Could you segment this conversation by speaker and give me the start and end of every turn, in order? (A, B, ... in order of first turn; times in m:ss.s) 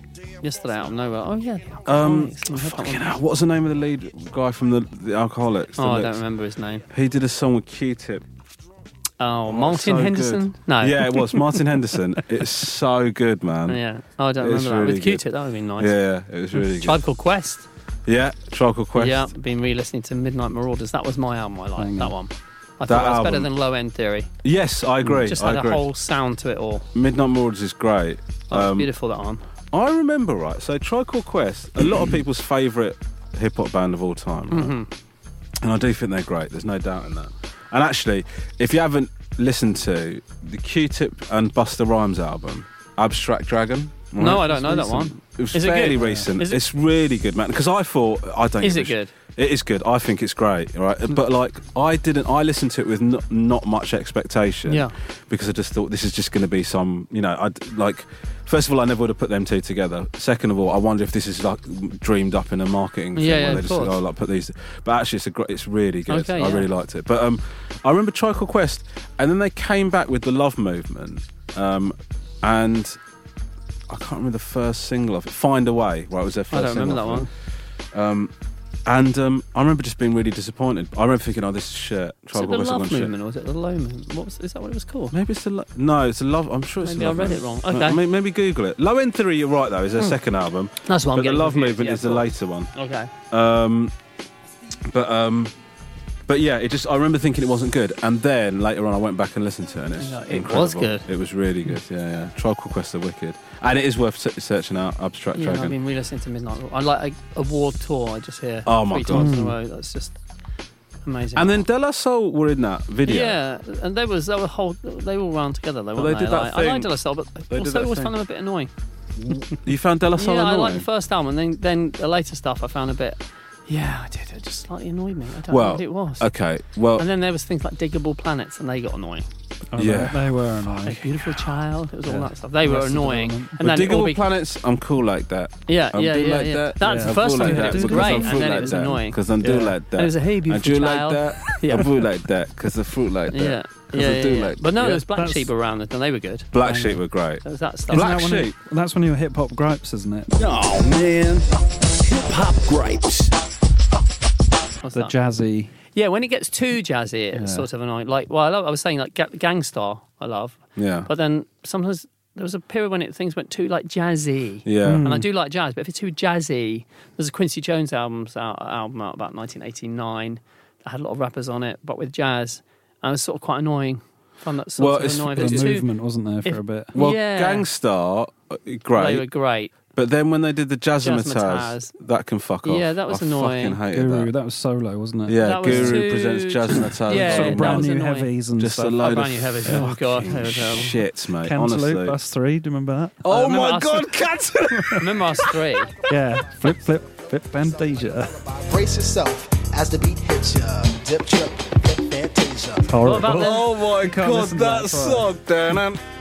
0:00.4-0:03.1 A
0:01.9-0:06.2 B
0:05.8-0:06.8 A
0:06.9-0:08.2 B
0:09.2-0:11.3 A
0:09.5-0:13.8 B
0:13.7-0:15.9 A
0:14.4-0:15.2 B
0:15.8-0:17.0 B
0:16.5-0:17.7 A
0:18.0-0:19.3 B
0:19.0-0:24.3 A
0:21.8-0:22.1 C
0:22.9-0:23.5 B
0:24.4-0:25.8 B
0:25.2-0:26.9 A
0:26.9-0:28.9 B
0:28.5-0:29.4 A
0:29.7-0:34.7 B
0:34.5-0:34.9 A
0:35.6-1:13.0 B
0:44.2-0:46.6 A
0:46.0-0:46.3 C
0:48.6-0:49.1 A
0:54.7-0:54.9 A
1:03.2-1:04.0 A
1:06.1-1:06.7 A
1:13.9-1:17.3 B
1:16.5-1:17.3 A
1:17.9-1:18.3 B
1:18.8-1:23.1 B
1:22.3-1:25.1 A
1:25.1-1:32.7 B
1:26.8-1:28.0 A
1:30.8-1:33.1 A
1:33.3-1:33.9 B
1:34.9-1:35.5 B
1:36.3-1:45.7 B
1:40.0-1:41.0 A
1:45.3-1:50.1 A
1:48.6-1:49.3 B
1:49.1-1:49.6 C
1:51.0-1:51.6 A
1:51.4-1:53.4 B
1:53.0-1:58.7 A
1:56.0-1:56.9 B
1:57.5-1:58.1 B
1:59.2-2:00.8 B
2:00.2-2:06.3 A
2:05.5-2:07.0 B
2:07.0-2:09.3 A
2:09.7-2:11.1 C
2:09.8-2:10.4 B
2:10.8-2:14.2 A
2:12.0-2:13.6 C
2:13.6-2:24.9 B
2:15.7-2:19.2 A
2:16.8-2:18.9 C
2:19.4-2:19.7 C
2:20.0-2:21.9 A
2:23.3-2:28.1 A
2:24.8-2:25.5 C
2:26.5-2:28.5 B
2:26.6-2:26.9 C
2:27.9-2:30.3 C
2:30.4-2:31.5 D
2:32.0-2:33.3 D
2:34.8-2:35.1 A
2:34.9-2:35.7 C
2:35.9-2:55.9 A
2:37.3-2:37.6 C
2:40.8-2:41.1 B
2:44.6-2:45.0 B
2:44.8-2:45.3 C
2:54.8-2:55.7 B
2:55.4-2:56.9 C
2:56.4-2:57.6 A
2:56.9-2:59.3 B
2:58.9-2:59.7 A
2:59.9-3:04.3 B
3:01.0-3:01.9 A
3:02.6-3:03.8 A
3:03.9-3:06.0 C
3:05.3-3:07.9 B
3:05.4-3:08.3 A
3:06.7-3:09.0 C
3:08.6-3:12.2 B
3:09.0-3:11.0 A
3:09.6-3:09.9 C
3:11.4-3:13.2 C
3:13.2-3:15.6 B
3:13.3-3:14.1 A
3:15.0-3:15.9 A
3:16.1-3:18.4 C
3:18.6-3:22.9 E
3:22.8-3:25.3 C
3:23.0-3:23.7 A
3:23.1-3:26.0 B